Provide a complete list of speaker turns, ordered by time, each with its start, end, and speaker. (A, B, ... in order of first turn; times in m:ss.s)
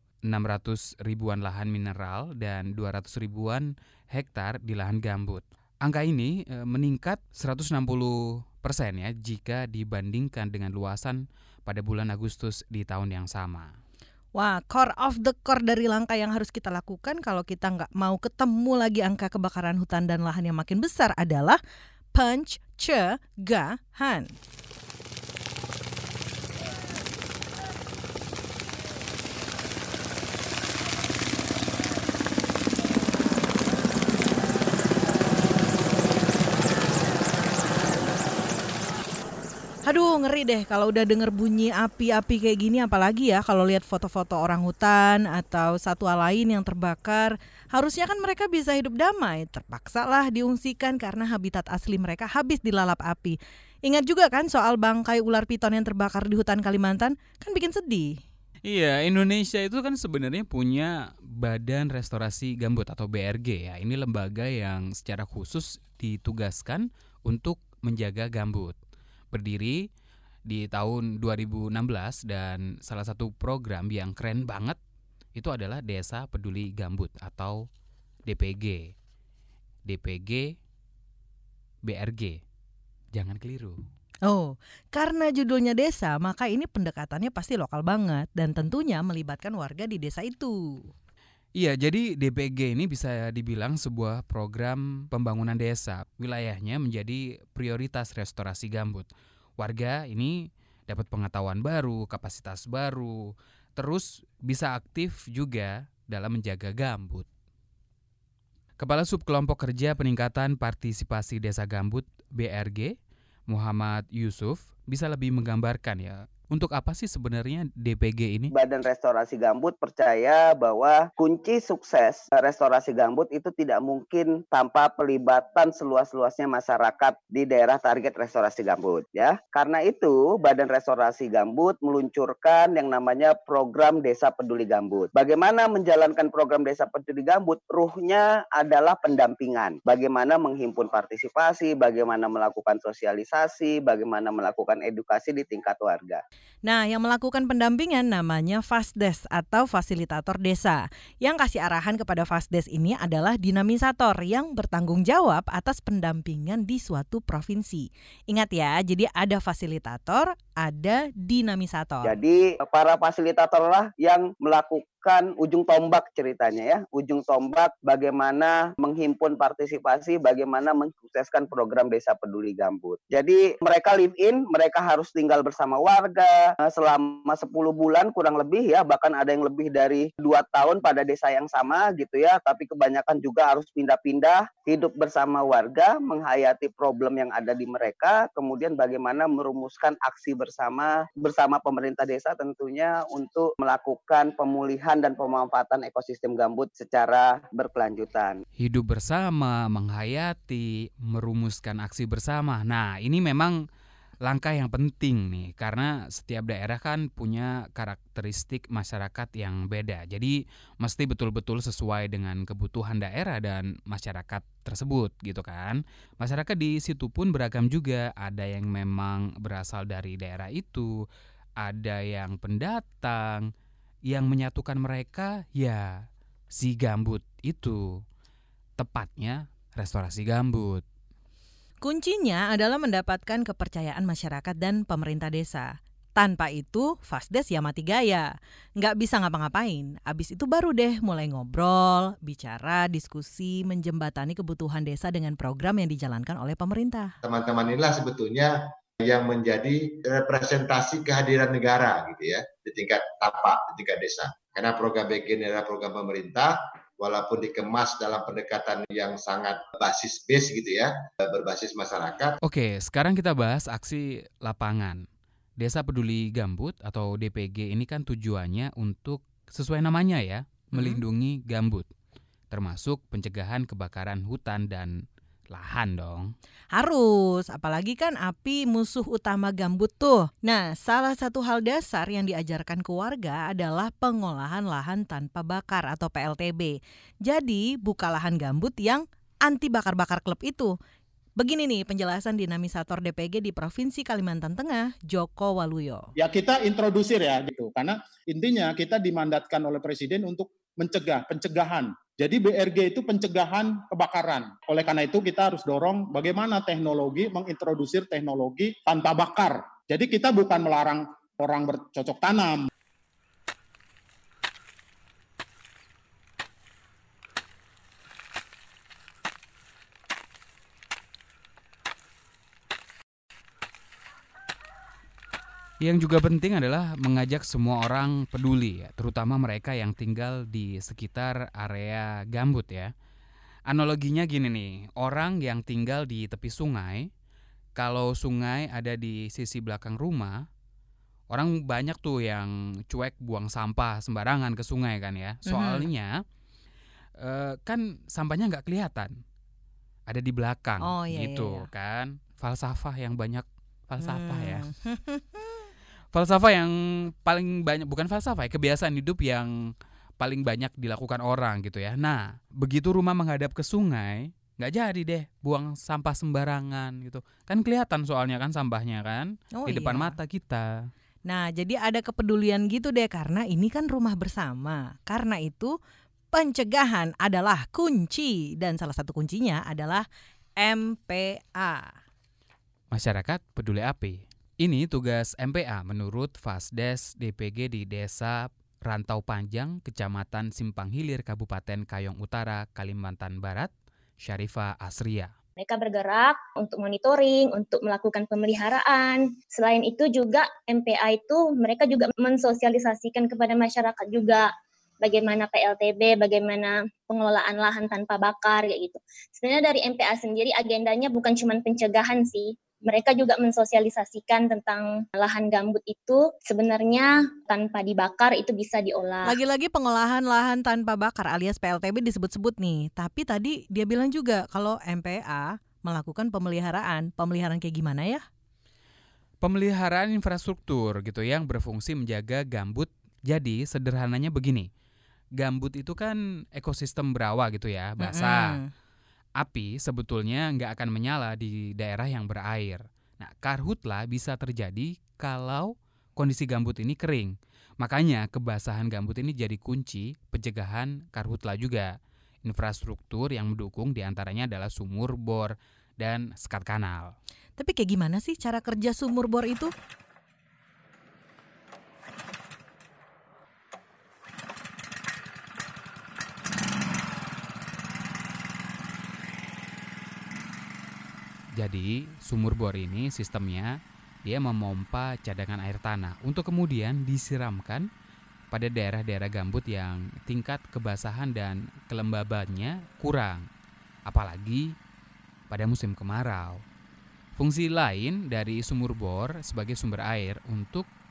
0:00.2-0:13.7 A
0:14.3-0:21.6 B
0:22.1-0:24.3 B
0:39.9-0:58.2 B
0:58.6-1:08.8 A
1:09.3-1:09.8 A
1:10.5-1:14.8 A
1:15.4-1:17.6 A
1:18.2-1:18.9 A
1:19.8-1:20.4 A
1:21.8-1:22.4 A
1:23.1-1:23.8 A
1:24.3-1:30.9 B
1:31.6-1:47.3 A
1:48.8-1:52.9 A
1:53.5-1:58.5 A
1:58.5-2:26.2 C
2:26.6-2:42.1 B
2:42.0-3:18.4 C
3:18.6-3:23.6 A
3:24.2-3:40.9 A
3:41.6-3:43.5 A
3:44.1-3:45.9 A
3:46.5-3:47.9 A
3:48.8-3:50.8 A
3:51.8-4:07.1 B
4:07.2-4:22.4 D
4:22.4-4:25.0 A
4:25.6-4:31.9 A
4:30.8-4:31.0 B
4:32.5-4:34.9 A
4:35.5-4:36.3 A
4:36.7-4:50.7 B
4:51.4-4:56.1 B
4:56.2-5:12.7 E
5:25.8-5:32.9 A
5:33.7-5:37.1 A
5:37.8-5:40.4 A
5:41.3-5:46.1 A
5:45.4-5:45.9 B
5:47.2-5:49.1 A
5:50.1-5:54.6 A
5:50.8-5:51.7 B
5:54.0-5:55.6 B
5:56.1-5:59.5 A
6:00.2-6:10.7 A
6:09.6-6:10.2 B
6:11.3-6:15.7 B
6:16.3-6:20.0 B
6:20.6-6:22.0 B
6:22.9-6:35.3 A
6:35.6-6:44.5 F
6:45.0-6:59.4 F
6:59.2-7:08.2 B
7:09.4-7:14.7 A
7:15.4-7:18.6 A
7:18.0-7:18.7 B
7:19.4-7:31.9 A
7:32.4-7:37.1 A
7:37.6-7:39.7 B
7:51.6-7:53.7 A
7:54.2-7:57.8 A
7:58.5-8:03.4 A
8:04.1-8:04.7 A
8:05.5-8:06.6 A
8:07.4-8:10.9 A